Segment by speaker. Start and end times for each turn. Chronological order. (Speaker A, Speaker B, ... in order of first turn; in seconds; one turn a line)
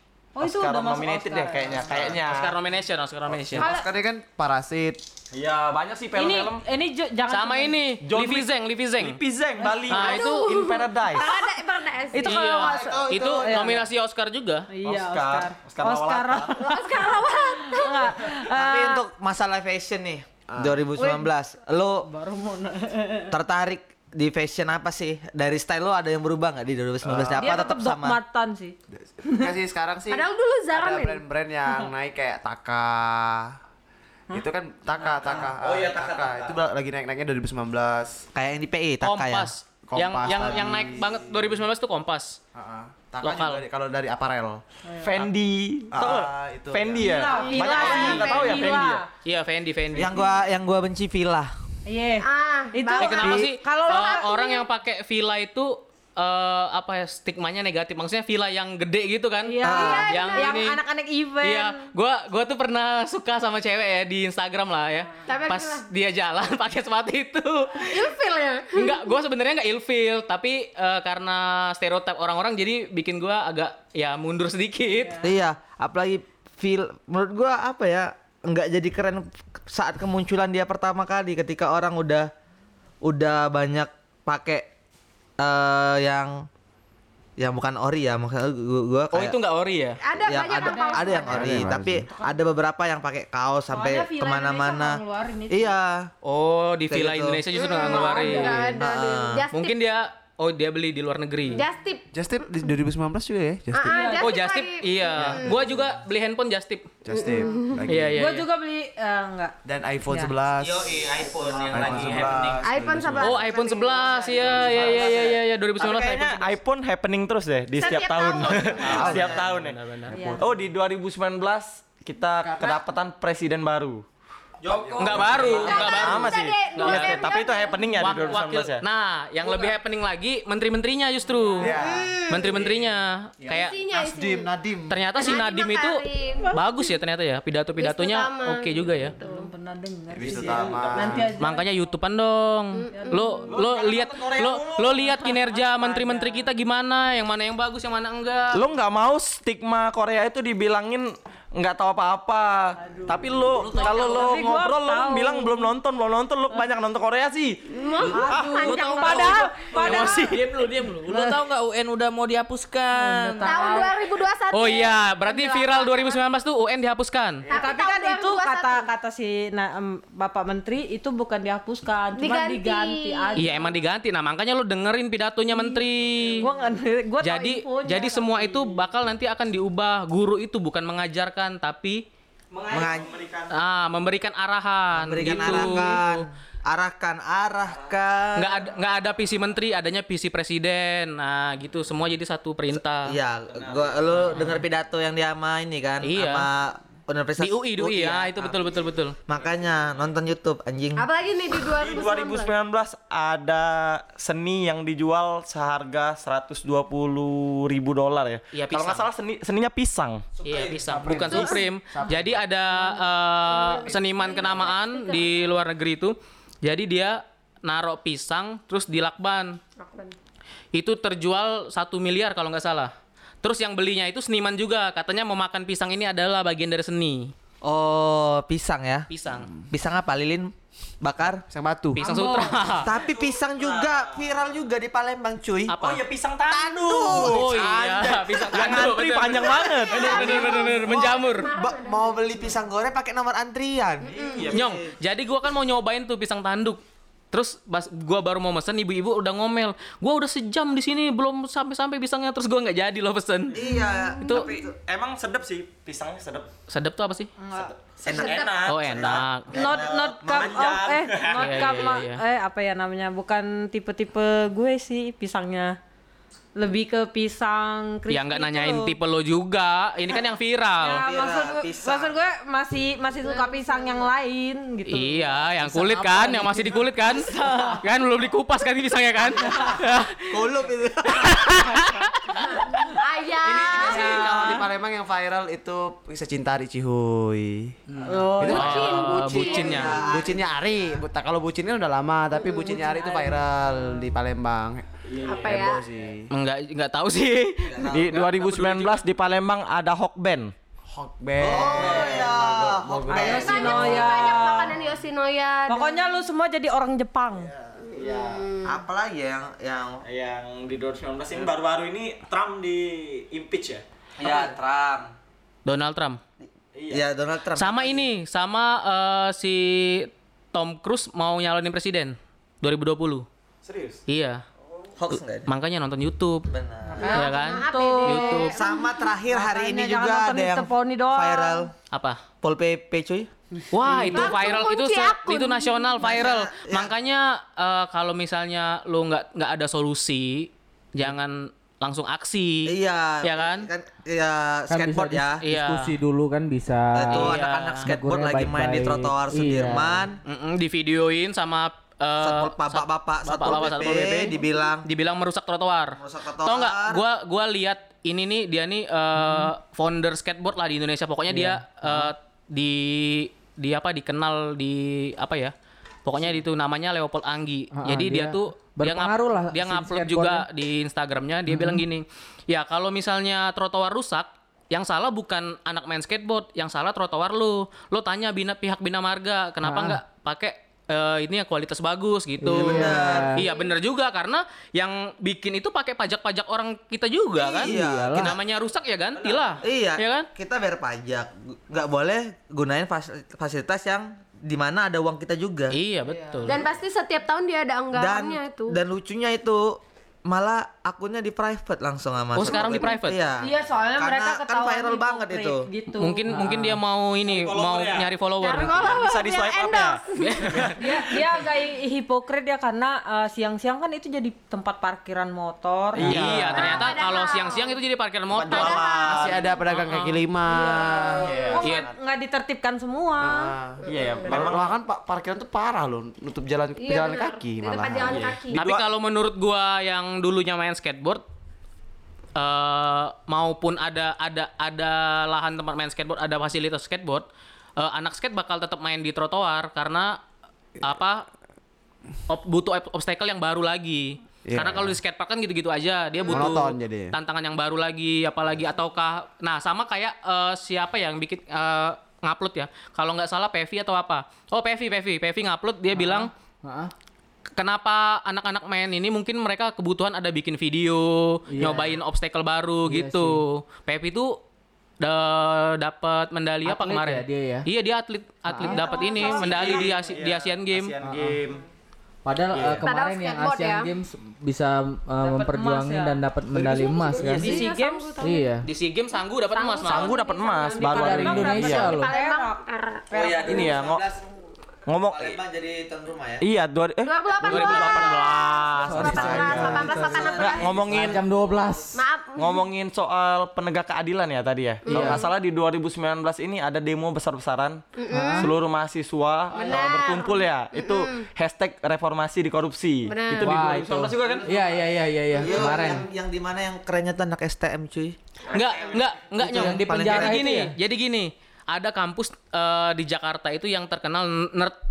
Speaker A: 0.4-2.1
Speaker B: 0.4-2.5
Speaker C: 2.2-3.7
Speaker D: 3.3-5.0
Speaker E: 3.6-3.9
Speaker B: 5.3-6.6
Speaker A: 6.2-7.8
Speaker C: 7.3-9.2
Speaker B: 8.0-11.3
Speaker E: 9.6-12.6
Speaker C: 9.9-10.6
Speaker A: 11.2-13.8
Speaker C: 12.2-14.7
Speaker F: 12.7-13.7
Speaker A: 14.7-19.0
Speaker B: 14.8-16.7
Speaker E: 16.6-18.3
Speaker F: 18.5-22.1
Speaker D: 20.5-21.0
Speaker A: 21.0-21.3
Speaker A: 22.1-23.3
Speaker F: 23.3-28.2
Speaker D: 27.0-27.4
Speaker A: 27.4-28.8
Speaker D: 28.9-33.6
Speaker E: 30.1-31.2
Speaker D: 34.3-38.2
Speaker B: 35.1-36.6
Speaker F: 38.4-39.5
Speaker C: 39.0-42.4
Speaker D: 39.9-41.4
Speaker D: 42.5-44.6
Speaker C: 43.2-43.6
Speaker B: 45.0-49.0
Speaker D: 45.9-47.1
Speaker A: 47.0-49.1
Speaker E: 47.1-48.9
Speaker C: 49.2-50.3
Speaker F: 49.9-51.5
Speaker A: 51.9-54.5
Speaker E: 52.2-54.6
Speaker C: 53.0-60.8
Speaker A: 59.5-61.8
Speaker F: 59.6-60.1
Speaker E: 59.7-60.6
Speaker C: 61.4-68.1
Speaker E: 65.2-65.9
Speaker E: 67.8-69.1
Speaker C: 68.7-75.2
Speaker A: 74.9-75.2
Speaker F: 75.2-82.3
Speaker F: 83.0-84.7
Speaker F: 85.4-86.5
Speaker F: 87.4-89.4
Speaker C: 89.1-90.0
Speaker E: 90.0-91.5
Speaker F: 90.2-96.1
Speaker A: 90.5-92.4
Speaker D: 91.3-92.1
Speaker A: 93.7-95.8
Speaker C: 96.2-98.8
Speaker F: 96.9-97.4
Speaker E: 97.5-99.8
Speaker A: 97.8-98.7
Speaker F: 98.8-99.5
Speaker C: 99.5-101.7
Speaker E: 101.5-102.1
Speaker D: 102.1-104.0
Speaker E: 103.7-105.7
Speaker A: 103.9-104.4
Speaker C: 104.2-106.9
Speaker D: 105.2-106.0
Speaker D: 107.0-108.2
Speaker E: 107.1-107.9
Speaker C: 107.9-108.5
Speaker A: 108.2-109.5
Speaker D: 109.6-113.4
Speaker A: 110.1-110.3
Speaker F: 110.6-112.6
Speaker B: 111.7-112.6
Speaker E: 112.6-115.0
Speaker C: 113.2-116.4
Speaker B: 114.3-124.0
Speaker F: 114.7-116.5
Speaker E: 117.8-119.0
Speaker D: 118.8-119.5
Speaker C: 118.8-120.1
Speaker D: 120.1-120.5
Speaker A: 120.1-120.5
Speaker D: 122.4-122.8
Speaker F: 124.6-125.8
Speaker D: 124.7-125.7
Speaker B: 124.9-128.8
Speaker C: 125.0-127.3
Speaker E: 125.5-128.3
Speaker C: 128.0-131.8
Speaker E: 129.5-129.7
Speaker A: 131.3-131.6
Speaker D: 131.6-132.1
Speaker E: 131.6-132.6
Speaker C: 132.3-133.8
Speaker E: 133.5-134.5
Speaker D: 133.9-135.0
Speaker C: 134.9-139.2
Speaker E: 135.2-136.9
Speaker E: 137.8-139.5
Speaker A: 139.2-141.7
Speaker D: 140.1-141.3
Speaker B: 140.2-141.3
Speaker C: 141.4-148.6
Speaker E: 142.7-143.5
Speaker A: 142.9-143.4
Speaker B: 143.5-145.2
Speaker A: 145.1-146.5
Speaker B: 148.5-157.6
Speaker A: 152.8-155.7
Speaker C: 153.6-154.2
Speaker E: 157.7-160.2
Speaker A: 158.0-160.4
Speaker B: 158.2-158.7
Speaker C: 158.4-160.6
Speaker G: 159.8-163.9
Speaker A: 162.9-163.9
Speaker E: 163.4-166.2
Speaker C: 164.5-167.5
Speaker E: 167.5-168.8
Speaker A: 167.5-173.8
Speaker E: 172.2-173.5
Speaker C: 173.4-176.5
Speaker A: 175.5-175.8
Speaker B: 176.1-176.8
Speaker A: 176.4-178.8
Speaker C: 177.2-182.0
Speaker B: 182.5-183.5
Speaker F: 182.7-183.2
Speaker C: 183.5-186.3
Speaker F: 184.9-188.7
Speaker B: 185.2-185.6
Speaker A: 185.5-185.9
Speaker C: 188.4-193.2
Speaker F: 192.7-198.7
Speaker B: 193.5-194.6
Speaker C: 196.0-196.5
Speaker C: 197.4-199.2
Speaker F: 199.3-201.1
Speaker B: 199.4-199.8
Speaker E: 201.0-202.6
Speaker B: 201.7-210.4
Speaker C: 208.5-209.1
Speaker C: 210.4-219.6
Speaker D: 210.6-212.4
Speaker E: 211.3-211.6
Speaker E: 212.7-215.5
Speaker E: 219.8-220.2
Speaker C: 220.7-227.3
Speaker F: 227.6-229.1
Speaker C: 229.1-229.5
Speaker F: 229.7-231.4
Speaker D: 231.5-232.0
Speaker C: 232.0-232.9
Speaker A: 232.0-232.7
Speaker B: 232.7-234.6
Speaker F: 232.7-235.8
Speaker C: 235.7-236.0
Speaker B: 235.8-240.4
Speaker F: 236.5-237.4
Speaker C: 237.1-241.5
Speaker E: 239.5-242.5
Speaker F: 240.1-244.8
Speaker E: 244.0-244.5
Speaker B: 244.1-244.7
Speaker C: 244.5-246.8
Speaker C: 247.3-254.5
Speaker F: 253.5-254.6
Speaker B: 254.3-256.5
Speaker C: 256.7-257.3
Speaker A: 257.4-257.7
Speaker B: 257.5-259.3
Speaker F: 258.0-260.7
Speaker E: 258.2-258.6
Speaker C: 258.7-259.8
Speaker A: 259.5-265.8
Speaker B: 260.3-261.8
Speaker C: 261.4-262.2
Speaker A: 266.6-268.9
Speaker C: 268.1-271.1
Speaker A: 270.8-275.4
Speaker F: 270.9-272.1
Speaker E: 273.2-274.1
Speaker C: 274.9-280.4
Speaker G: 275.6-276.9
Speaker A: 277.0-277.8
Speaker F: 280.3-281.9
Speaker C: 281.1-282.6
Speaker E: 282.8-284.5
Speaker D: 283.4-294.9
Speaker A: 283.8-284.6
Speaker A: 288.1-288.6
Speaker E: 288.4-290.0
Speaker C: 288.4-290.0
Speaker F: 289.4-290.5
Speaker E: 292.4-293.4
Speaker B: 295.1-295.7
Speaker E: 295.2-295.8
Speaker D: 295.4-296.3
Speaker C: 296.3-299.0
Speaker F: 297.7-298.2
Speaker B: 297.9-300.5
Speaker D: 300.9-303.8
Speaker F: 301.4-304.1
Speaker B: 301.6-302.4
Speaker A: 303.1-304.8
Speaker E: 303.2-306.2
Speaker A: 305.7-307.5
Speaker E: 307.9-308.8
Speaker B: 308.0-308.5
Speaker F: 308.7-310.0
Speaker B: 310.0-314.5
Speaker F: 314.2-315.1
Speaker C: 315.6-316.2
Speaker B: 316.8-317.1
Speaker F: 316.9-318.1
Speaker C: 317.6-323.3
Speaker B: 323.6-324.0
Speaker C: 324.1-324.4
Speaker F: 325.0-325.5
Speaker C: 325.5-326.5
Speaker F: 326.5-327.2
Speaker A: 326.9-328.6
Speaker E: 327.1-328.9
Speaker C: 327.1-328.6
Speaker F: 328.5-331.7
Speaker A: 329.2-331.7
Speaker C: 331.9-332.2
Speaker F: 332.4-333.3
Speaker C: 333.7-343.7
Speaker E: 333.9-336.0
Speaker A: 333.9-334.3
Speaker F: 336.0-336.9
Speaker F: 342.7-345.4
Speaker G: 344.7-350.1
Speaker C: 345.4-346.0
Speaker F: 346.9-350.2
Speaker C: 347.1-347.9
Speaker C: 350.2-365.5
Speaker F: 352.2-354.8
Speaker F: 356.0-357.0
Speaker G: 359.2-359.5
Speaker G: 361.3-362.1
Speaker C: 366.1-390.3
Speaker G: 367.8-370.4
Speaker G: 371.5-371.9
Speaker G: 379.6-380.0
Speaker G: 382.4-383.5
Speaker F: 382.5-383.4
Speaker F: 387.4-388.4
Speaker G: 387.6-388.4
Speaker B: 389.2-389.6
Speaker F: 389.6-395.8
Speaker C: 395.7-396.6
Speaker A: 396.1-396.5
Speaker E: 396.4-398.8
Speaker F: 397.9-405.7
Speaker C: 402.4-403.2
Speaker E: 402.5-402.8
Speaker A: 403.4-406.4
Speaker C: 406.0-409.0
Speaker G: 406.3-406.8
Speaker B: 407.2-408.1
Speaker E: 408.4-410.7
Speaker B: 408.8-410.8
Speaker C: 410.2-410.8
Speaker A: 410.8-416.1
Speaker B: 415.9-416.8
Speaker C: 416.0-419.0
Speaker E: 416.2-417.8
Speaker B: 418.3-419.4
Speaker E: 418.5-419.6
Speaker D: 419.1-421.3
Speaker C: 419.7-420.2
Speaker E: 420.5-421.6
Speaker B: 421.2-421.9
Speaker A: 421.5-423.5
Speaker D: 423.2-428.3
Speaker E: 423.8-424.4
Speaker B: 423.9-424.7
Speaker E: 426.8-428.6
Speaker B: 428.0-428.9
Speaker C: 428.5-431.2
Speaker C: 432.4-437.3
Speaker C: 437.8-440.2
Speaker C: 440.8-441.3
Speaker C: 442.3-456.3
Speaker D: 444.5-445.0
Speaker E: 446.2-446.5
Speaker D: 446.3-447.1
Speaker G: 455.9-456.9
Speaker C: 457.6-464.4
Speaker G: 461.5-462.0
Speaker G: 462.9-463.4
Speaker C: 465.0-470.9
Speaker G: 466.6-467.7
Speaker G: 468.5-468.8
Speaker A: 468.6-469.9
Speaker E: 468.7-469.9
Speaker B: 469.1-471.6
Speaker G: 471.0-471.4
Speaker G: 472.2-477.6
Speaker B: 472.5-472.9
Speaker E: 472.8-473.9
Speaker A: 475.2-476.2
Speaker B: 476.5-477.6
Speaker E: 476.6-478.5
Speaker A: 477.2-478.3
Speaker G: 478.2-478.7
Speaker C: 478.6-480.2
Speaker E: 479.2-480.8
Speaker B: 479.9-481.9
Speaker A: 480.2-482.6
Speaker G: 480.8-482.1
Speaker E: 481.4-483.1
Speaker A: 483.1-483.7
Speaker F: 483.1-484.2
Speaker B: 483.5-484.0
Speaker B: 484.9-485.4
Speaker F: 485.1-486.4
Speaker B: 486.4-491.2
Speaker E: 487.0-490.9
Speaker C: 487.4-489.2
Speaker G: 488.9-490.3
Speaker F: 489.6-490.6
Speaker G: 490.9-492.0
Speaker E: 491.9-492.7
Speaker B: 492.4-504.9
Speaker E: 494.9-495.3
Speaker G: 494.9-495.2
Speaker E: 497.9-498.5
Speaker G: 498.1-498.5
Speaker E: 499.5-501.3
Speaker E: 503.1-503.7
Speaker G: 503.4-506.1
Speaker F: 505.4-508.2
Speaker B: 508.5-509.2
Speaker C: 508.5-514.8
Speaker F: 509.4-510.7
Speaker G: 509.4-510.8